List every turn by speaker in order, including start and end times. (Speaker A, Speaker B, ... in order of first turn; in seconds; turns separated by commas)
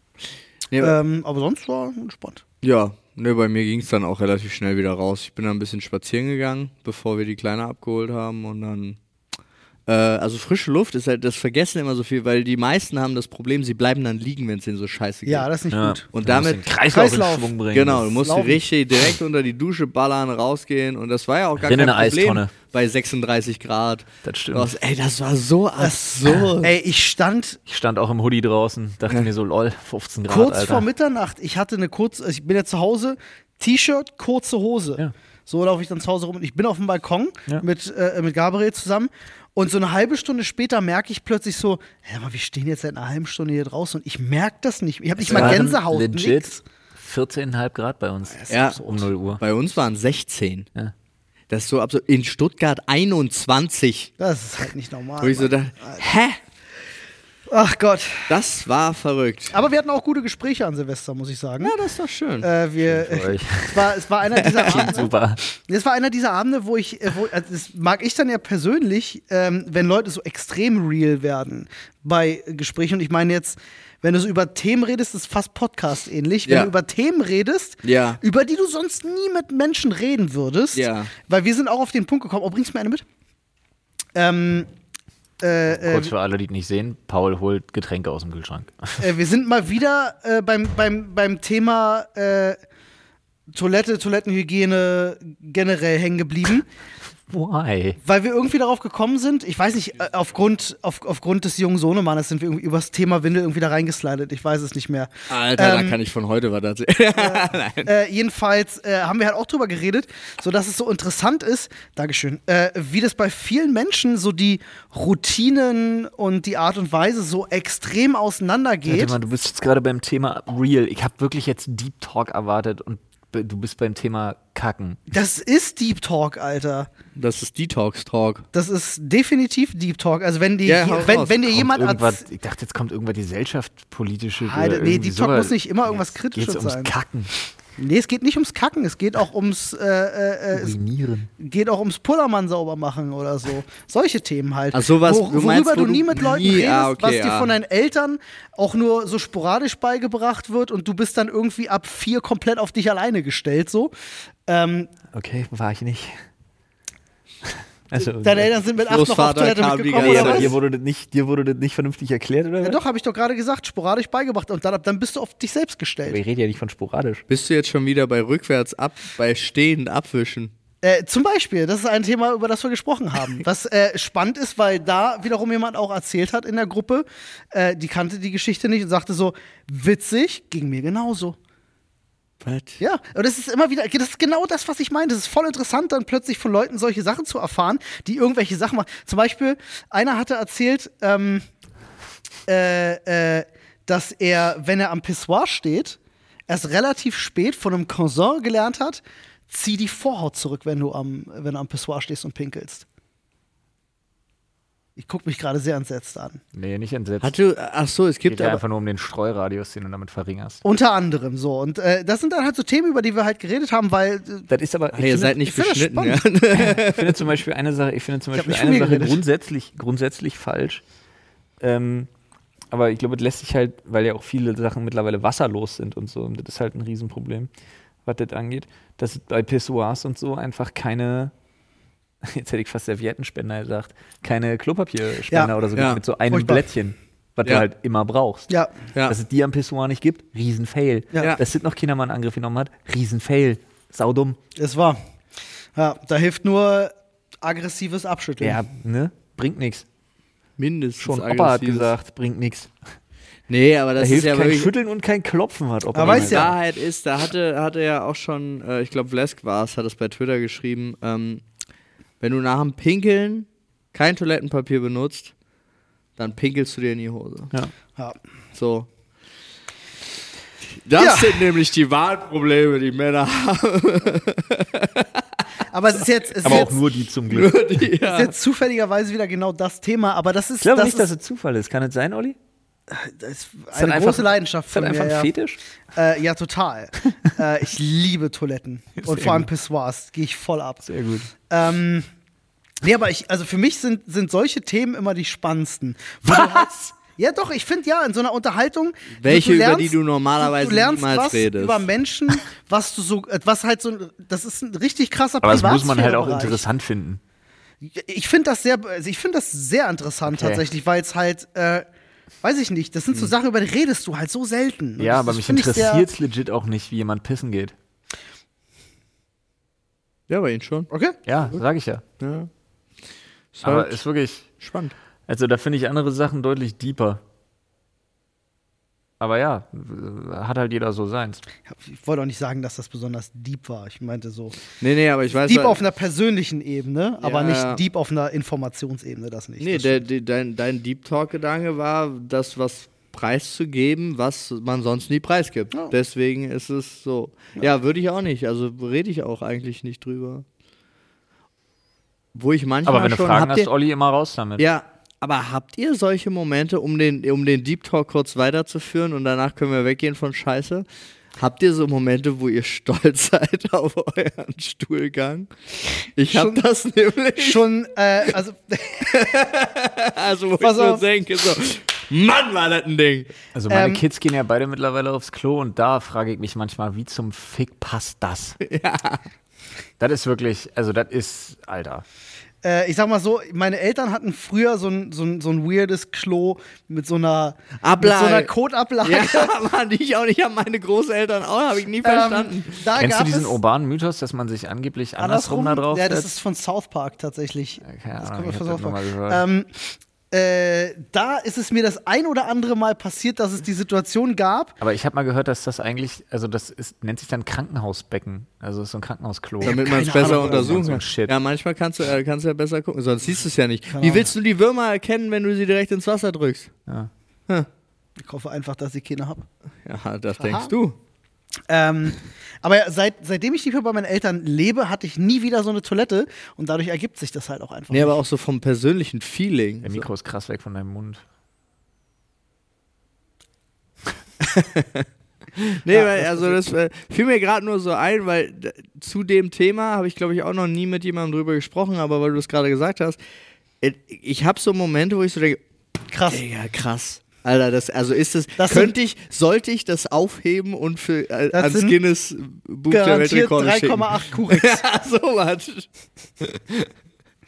Speaker A: 0.7-0.9, Speaker B: 0.8-2.4, Speaker A: 2.6-9.0, Speaker A: 9.9-15.5, Speaker B: 15.2-16.1, Speaker C: 15.7-18.1, Speaker A: 16.1-16.6, Speaker B: 16.9-17.6, Speaker A: 17.7-26.7, Speaker B: 18.2-18.6, Speaker C: 21.6-22.5, Speaker C: 24.2-24.7, Speaker B: 25.8-27.6, Speaker C: 27.7-30.9, Speaker B: 30.3-46.6, Speaker C: 45.2-49.4, Speaker A: 45.3-45.6, Speaker B: 48.3-49.0, Speaker A: 48.5-50.7, Speaker A: 51.5-54.1, Speaker B: 54.2-56.0, Speaker A: 55.2-56.4, Speaker B: 57.5-58.4, Speaker A: 58.3-59.5, Speaker B: 59.5-61.7, Speaker A: 61.6-62.5, Speaker B: 62.4-83.0, Speaker C: 62.9-63.9, Speaker A: 64.5-64.9, Speaker C: 64.6-65.4, Speaker A: 77.8-78.2, Speaker A: 80.7-81.1, Speaker B: 84.1-84.7, Speaker B: 85.4-86.1, Speaker C: 85.8-89.0, Speaker B: 89.0-92.6, Speaker B: 93.5-96.7, Speaker C: 97.3-98.0, Speaker B: 98.0-106.0, Speaker A: 105.3-107.9, Speaker B: 107.2-119.2, Speaker C: 118.9-125.0, Speaker B: 125.1-126.9, Speaker A: 127.2-128.4, Speaker B: 128.5-132.2, Speaker A: 130.6-131.3, Speaker C: 131.4-137.3, Speaker B: 134.4-136.9, Speaker B: 137.8-140.8, Speaker C: 140.5-141.3, Speaker B: 141.4-153.9, Speaker A: 144.7-147.5, Speaker B: 154.5-154.9, Speaker C: 155.1-156.2, Speaker C: 157.9-158.5, Speaker B: 158.2-160.5, Speaker A: 158.8-160.6, Speaker C: 160.0-162.8, Speaker B: 162.6-166.2, Speaker C: 166.1-167.2, Speaker A: 167.3-170.5, Speaker B: 170.8-181.4, Speaker A: 182.4-182.8, Speaker B: 182.8-191.4, Speaker B: 192.5-202.8, Speaker B: 205.0-206.4, Speaker C: 206.5-207.3, Speaker A: 207.2-208.6, Speaker C: 208.3-210.6, Speaker B: 210.6-214.5, Speaker C: 214.5-215.4, Speaker A: 214.9-217.3, Speaker B: 215.4-216.3, Speaker C: 216.5-220.8, Speaker B: 218.3-219.2, Speaker C: 221.6-222.1, Speaker C: 222.7-227.5, Speaker C: 228.0-231.3, Speaker C: 232.2-238.5, Speaker A: 235.7-236.0, Speaker B: 236.3-236.6, Speaker C: 239.1-244.4, Speaker B: 241.1-241.4, Speaker B: 244.6-245.0, Speaker B: 245.8-248.6, Speaker C: 248.4-249.8, Speaker A: 250.6-251.9, Speaker C: 251.0-252.7, Speaker A: 253.5-254.7, Speaker C: 254.0-256.5, Speaker B: 255.9-256.5, Speaker A: 256.0-261.4, Speaker A: 262.2-265.3, Speaker A: 266.2-267.5, Speaker A: 268.5-268.9, Speaker A: 270.8-275.2, Speaker B: 270.9-271.5, Speaker B: 275.7-276.8, Speaker C: 276.4-277.6, Speaker A: 277.3-278.3, Speaker B: 278.0-281.1, Speaker C: 280.6-282.4, Speaker B: 282.9-285.3, Speaker C: 283.7-285.6, Speaker B: 285.9-290.9, Speaker C: 289.0-289.5, Speaker C: 290.8-291.3, Speaker B: 291.5-292.1, Speaker B: 292.8-306.6, Speaker C: 296.3-296.7, Speaker A: 299.2-301.9, Speaker C: 305.4-307.2, Speaker B: 307.8-311.9, Speaker C: 310.3-310.6, Speaker B: 312.4-316.1, Speaker C: 315.0-317.7, Speaker A: 320.3-320.9, Speaker B: 320.9-321.2, Speaker C: 321.2-322.0, Speaker A: 322.2-322.5, Speaker A: 323.5-324.0, Speaker C: 323.6-324.5, Speaker A: 324.6-324.9, Speaker C: 325.3-327.2, Speaker C: 329.2-331.4, Speaker B: 331.7-334.6, Speaker A: 334.8-335.8, Speaker B: 335.3-340.0, Speaker A: 337.2-337.8, Speaker A: 339.6-350.4, Speaker A: 352.3-353.7, Speaker C: 352.9-354.6, Speaker A: 354.6-360.9, Speaker A: 361.4-365.5, Speaker A: 366.2-367.6, Speaker B: 366.3-366.6, Speaker B: 367.4-369.2, Speaker A: 369.0-373.3, Speaker B: 370.6-371.0, Speaker C: 373.5-378.6, Speaker B: 373.7-374.0, Speaker A: 378.6-379.2, Speaker C: 380.0-382.0, Speaker B: 382.6-389.5, Speaker A: 387.8-388.5, Speaker A: 389.0-392.8, Speaker B: 392.0-393.6, Speaker C: 392.9-396.3, Speaker B: 395.2-404.8, Speaker C: 397.8-399.4, Speaker C: 404.8-411.3, Speaker B: 409.6-411.0, Speaker A: 409.6-416.7, Speaker B: 413.9-414.3, Speaker B: 418.2-419.4, Speaker A: 419.9-420.9, Speaker B: 420.4-420.7, Speaker B: 421.7-428.2, Speaker A: 427.9-430.1, Speaker C: 429.8-431.2, Speaker A: 434.4-435.1, Speaker A: 435.6-443.2, Speaker B: 435.9-436.6, Speaker A: 443.8-445.6, Speaker B: 446.1-446.4, Speaker A: 446.3-455.9, Speaker B: 448.6-448.9, Speaker B: 451.5-452.0, Speaker B: 452.9-454.8, Speaker A: 456.4-456.9